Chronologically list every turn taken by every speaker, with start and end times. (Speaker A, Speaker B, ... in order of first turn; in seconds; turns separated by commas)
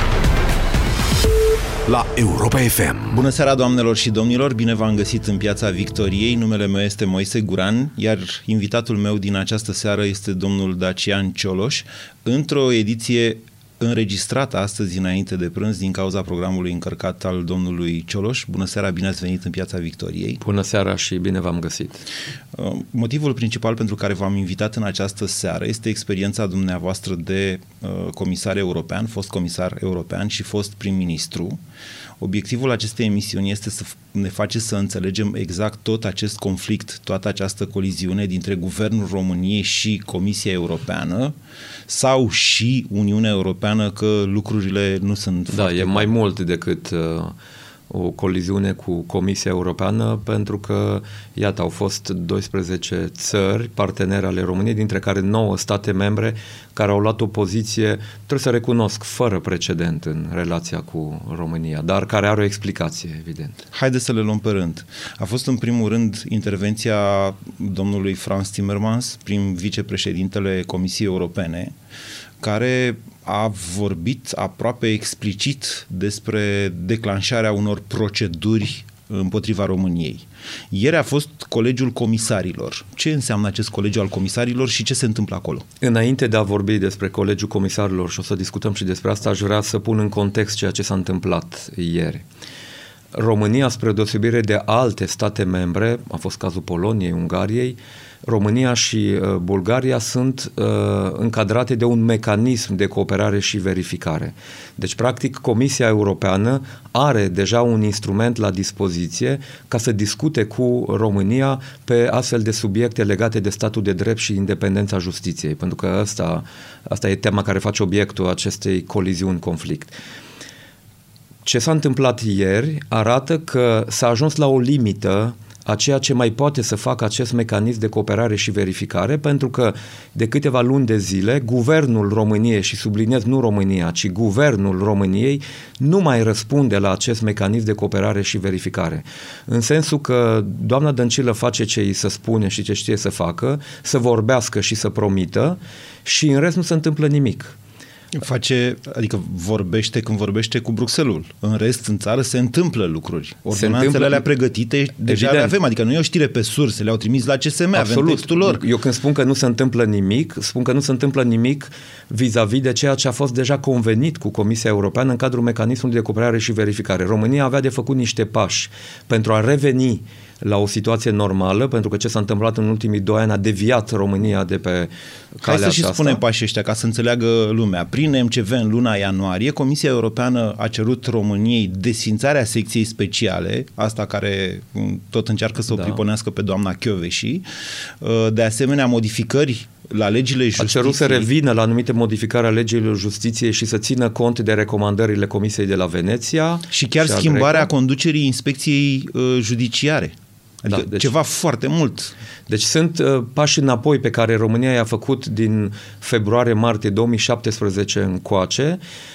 Speaker A: 1.9-20.4, Speaker B: 20.4-22.1, Speaker A: 22.5-31.6, Speaker A: 32.2-41.3, Speaker A: 41.9-46.1, Speaker B: 45.5-47.3, Speaker B: 47.9-63.6, Speaker A: 63.7-71.7, Speaker A: 72.4-85.7, Speaker B: 85.8-92.2, Speaker B: 93.1-119.9, Speaker B: 121.5-147.6, Speaker A: 148.1-158.6, Speaker B: 153.5-154.3, Speaker B: 155.1-155.5, Speaker B: 157.7-176.2, Speaker A: 175.4-187.4, Speaker B: 185.7-186.0, Speaker A: 188.0-191.3, Speaker B: 190.6-197.7, Speaker A: 196.7-202.1, Speaker B: 200.7-201.1, Speaker B: 202.5-208.8